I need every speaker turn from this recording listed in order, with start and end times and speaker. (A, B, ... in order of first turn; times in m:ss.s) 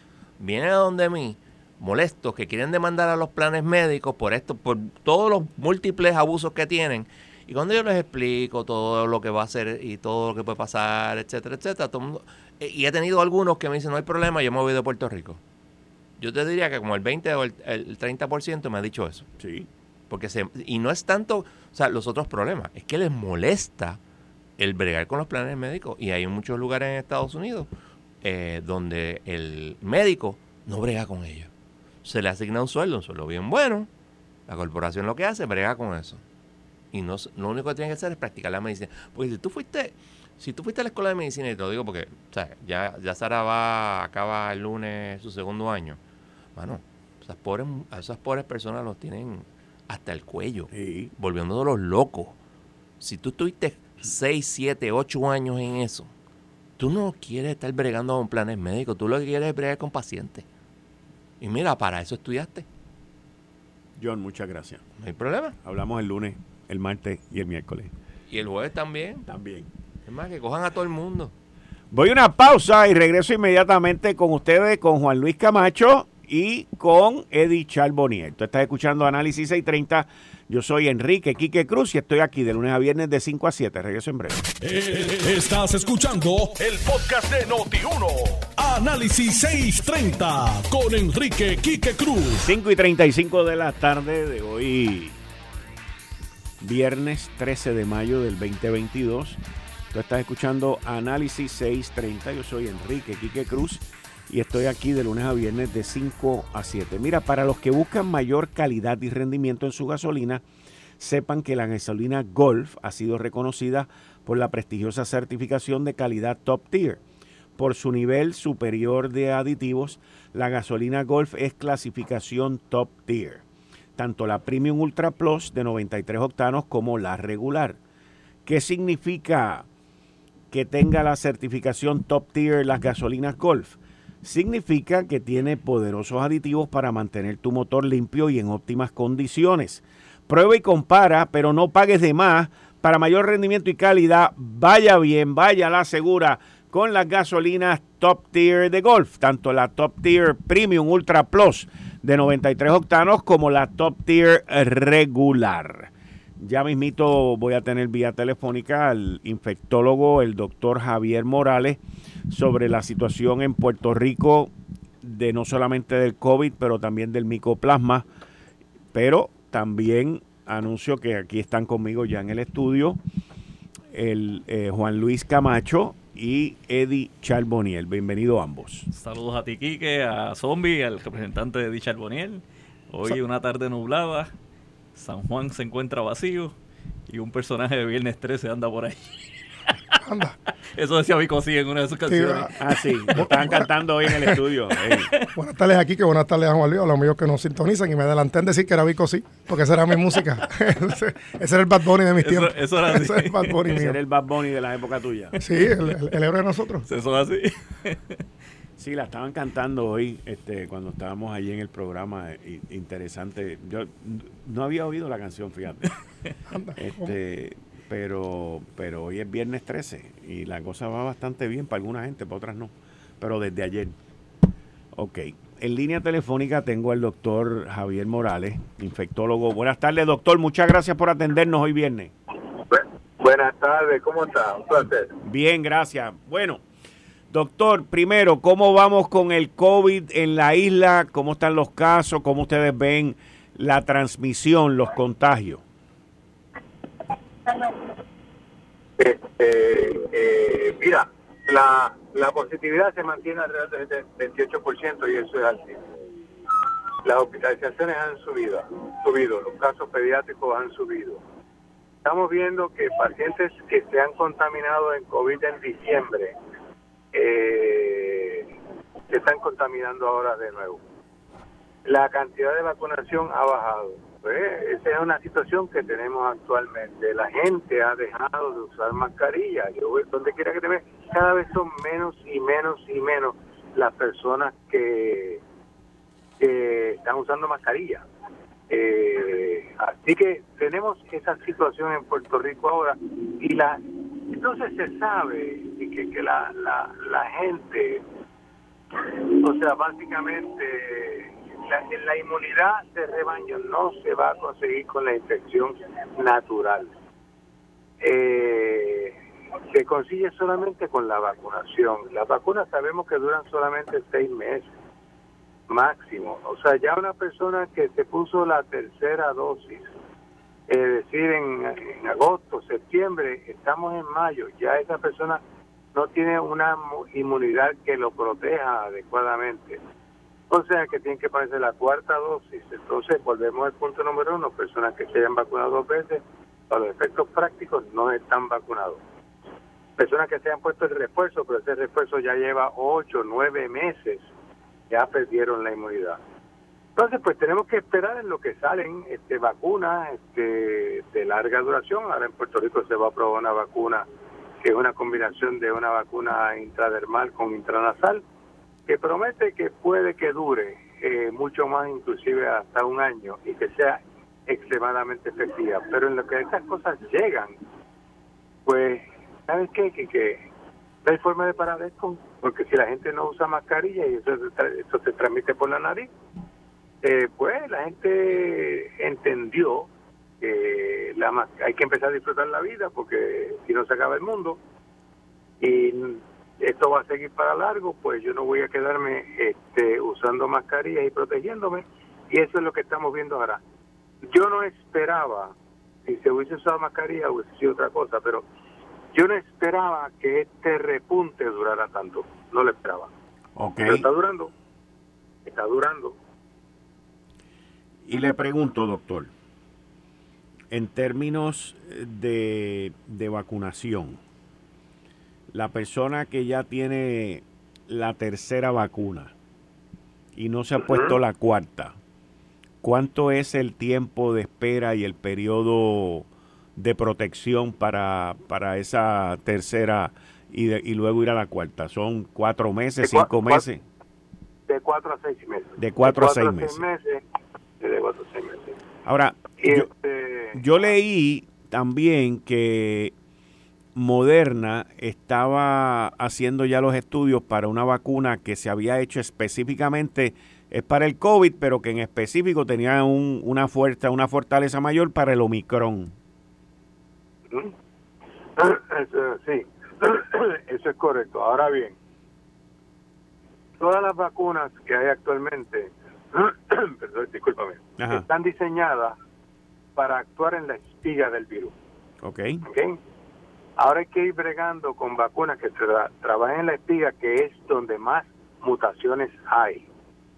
0:00.4-0:15.4 A
0:16.2-0:19.3 A
0:19.4-0:19.7 B
0:20.1-0:24.0 A
0:24.6-0:27.7 A
0:28.2-0:31.5 A
0:32.0-0:33.9 A
0:34.5-0:36.2 A
0:36.9-0:46.0 A
0:46.6-0:52.4 A
0:50.7-0:51.1 B
0:53.0-0:56.1 A
0:56.8-1:00.4 A
1:01.4-1:02.6 A
1:04.0-1:04.8 B
1:05.0-1:05.6 A
1:05.6-1:07.9 B
1:08.3-1:09.3 A
1:09.3-1:09.7 B
1:10.0-1:11.3 A
1:11.9-1:24.5 B
1:24.6-1:32.5 C
1:32.4-1:35.2 B
1:36.6-1:39.4 B
1:39.9-1:50.4 B
1:51.0-1:57.0 B
1:57.6-2:03.4 B
2:04.0-2:07.8 B
2:08.4-2:09.7 B
2:10.5-2:48.0 B
2:48.9-2:53.0 B
2:53.9-2:58.9 B
2:58.9-3:04.3 D
3:04.9-3:06.5 D
3:07.1-3:09.1 D
3:10.0-3:10.4 E
3:10.7-3:13.3 D
3:12.1-3:12.5 E
3:12.6-3:15.1 B
3:13.1-3:13.7 E
3:14.0-3:15.3 D
3:15.4-3:24.0 E
3:22.2-3:23.8 D
3:23.7-3:25.4 B
3:25.4-3:26.9 E
3:26.8-3:28.2 D
3:28.8-3:35.9 B
3:36.5-3:37.1 E
3:36.8-3:44.0 B
3:44.9-3:52.1 B
3:52.7-3:55.1 F
3:55.2-3:56.6 B
3:57.3-4:05.6 B
4:09.0-4:15.8 F
4:17.0-4:21.2 F
4:22.0-4:26.3 F
4:27.1-4:28.5 F
4:29.1-4:30.8 F
4:31.8-4:45.4 F
4:46.4-4:48.0 F
4:48.7-4:58.0 F
4:58.9-5:06.9 F
5:08.0-5:09.1 F
5:09.7-5:14.7 F
5:15.7-5:19.9 F
5:20.7-5:25.4 F
5:25.9-5:29.8 F
5:30.5-5:39.0 F
5:40.0-5:44.2 F
5:44.9-5:46.2 F
5:47.0-5:54.0 F
5:54.6-5:58.2 F
5:58.8-6:07.6 F
6:08.6-6:10.4 F
6:11.0-6:16.1 F
6:17.0-6:19.9 F
6:20.4-6:24.6 F
6:25.6-6:33.6 F
6:34.2-6:35.5 F
6:36.0-6:38.4 F
6:39.1-6:43.1 F
6:43.6-6:44.0 B
6:43.8-6:44.5 F
6:45.4-6:46.2 F
6:48.0-6:49.3 B
6:50.7-6:54.2 B
6:55.5-6:59.3 B
7:00.4-7:02.0 B
7:02.8-7:13.8 B
7:13.0-7:13.6 F
7:14.7-7:17.2 F
7:15.8-7:16.8 B
7:17.8-7:18.7 F
7:19.0-7:19.9 B
7:19.6-7:20.6 F
7:20.5-7:23.1 B
7:23.9-7:36.1 B
7:38.6-7:41.9 F
7:43.8-7:49.2 F
7:48.0-7:48.2 B
7:50.0-7:51.7 F
7:52.2-7:52.6 B
7:52.6-7:53.0 F
7:53.8-7:59.8 F